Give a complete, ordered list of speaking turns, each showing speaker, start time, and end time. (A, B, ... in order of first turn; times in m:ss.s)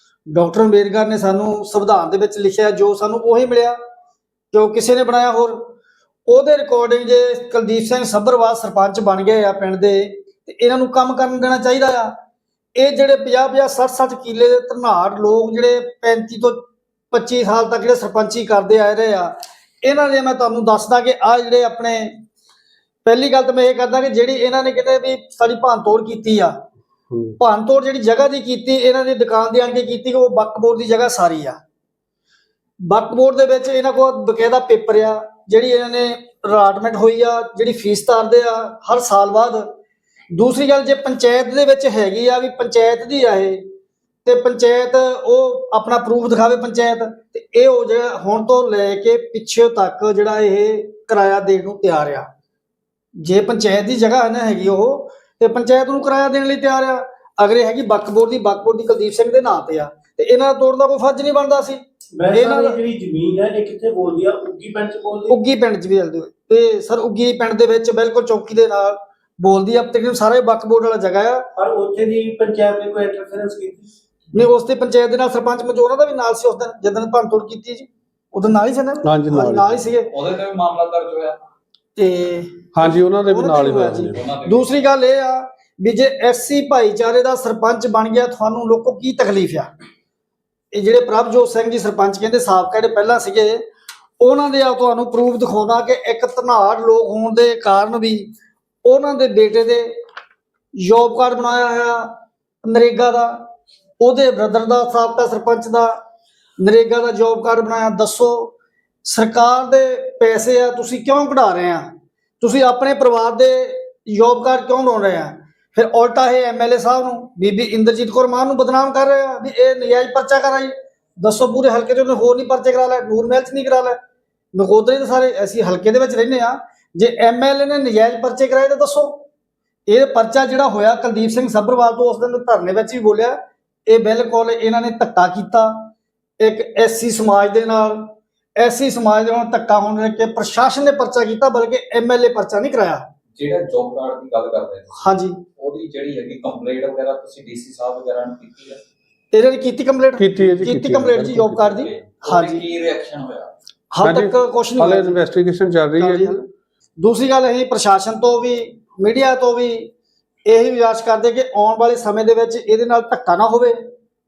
0:00.3-0:03.8 A
0:04.5-0:05.7 A
0:06.3-0:12.1 A
0:12.8-0:16.6 A
0:17.1-0:22.1 A
0:23.0-0:26.5 A
0:27.1-0:27.4 B
0:27.4-0:31.6 A
0:32.8-0:39.6 A
0:40.3-0:43.6 A
0:44.2-0:52.3 A
0:53.2-1:01.8 A
1:02.2-1:05.4 C
1:02.3-1:02.8 A
1:05.3-1:11.4 A
1:11.6-1:13.9 C
1:14.3-1:20.1 A
1:19.0-1:19.9 B
1:20.1-1:21.4 D
1:22.0-1:29.7 A
1:22.7-1:24.2 B
1:24.1-1:24.8 D
1:30.7-1:33.6 A
1:34.2-1:38.3 A
1:38.8-1:39.9 A
1:40.8-1:43.4 A
1:44.0-1:45.9 A
1:46.6-1:48.5 A
1:49.0-1:51.8 A
1:52.4-2:04.0 A
2:04.5-2:09.2 A
2:09.9-2:23.0 A
2:23.3-2:28.8 D
2:25.0-2:25.4 A
2:29.3-2:32.6 A
2:30.2-2:31.8 B
2:31.8-2:33.5 D
2:33.9-2:35.2 A
2:34.0-2:36.3 B
2:36.0-2:36.4 A
2:37.0-2:39.9 A
2:40.4-2:43.8 A